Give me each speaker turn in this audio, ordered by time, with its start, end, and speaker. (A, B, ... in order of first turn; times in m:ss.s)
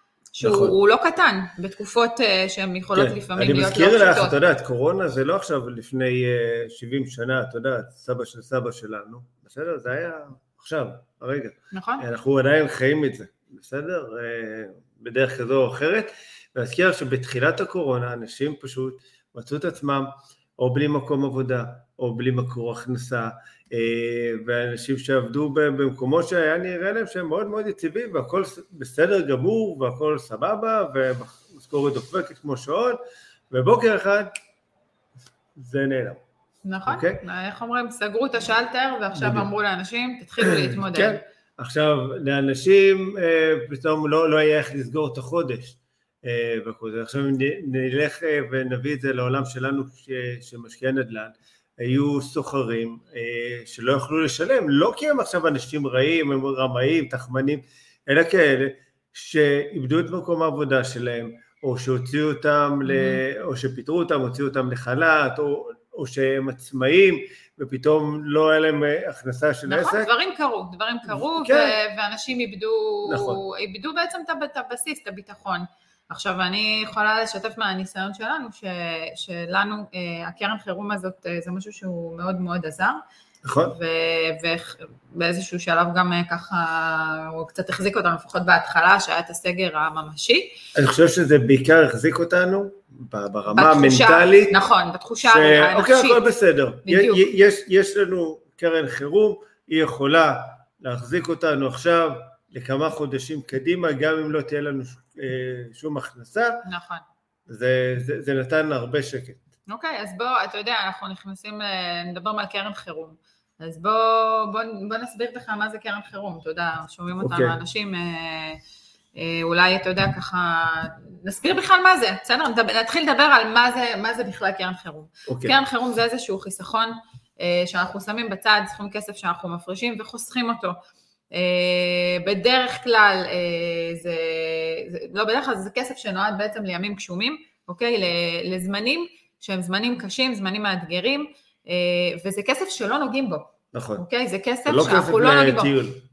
0:00.3-0:04.4 A
0:00.4-0:00.7 B
0:02.9-0:33.0 B
0:11.7-0:12.0 A
0:33.5-0:34.3 B
0:35.6-0:36.2 B
0:36.6-0:41.2 A
0:36.9-0:37.2 B
0:39.1-0:39.5 B
0:40.4-1:10.1 B
1:02.8-1:03.2 A
1:09.7-1:23.0 A
1:11.1-1:11.8 B
1:13.0-1:13.4 B
1:23.4-1:23.8 B
1:23.6-1:30.5 A
1:30.8-1:34.6 B
1:33.5-1:36.2 A
1:35.2-1:46.6 B
1:36.8-1:37.2 A
1:46.6-1:47.0 A
1:47.5-1:49.4 B
1:49.7-1:58.6 A
1:57.2-1:57.6 B
1:59.2-2:10.8 A
2:05.3-2:05.5 B
2:11.3-2:25.7 A
2:23.7-2:24.0 B
2:24.6-2:26.0 B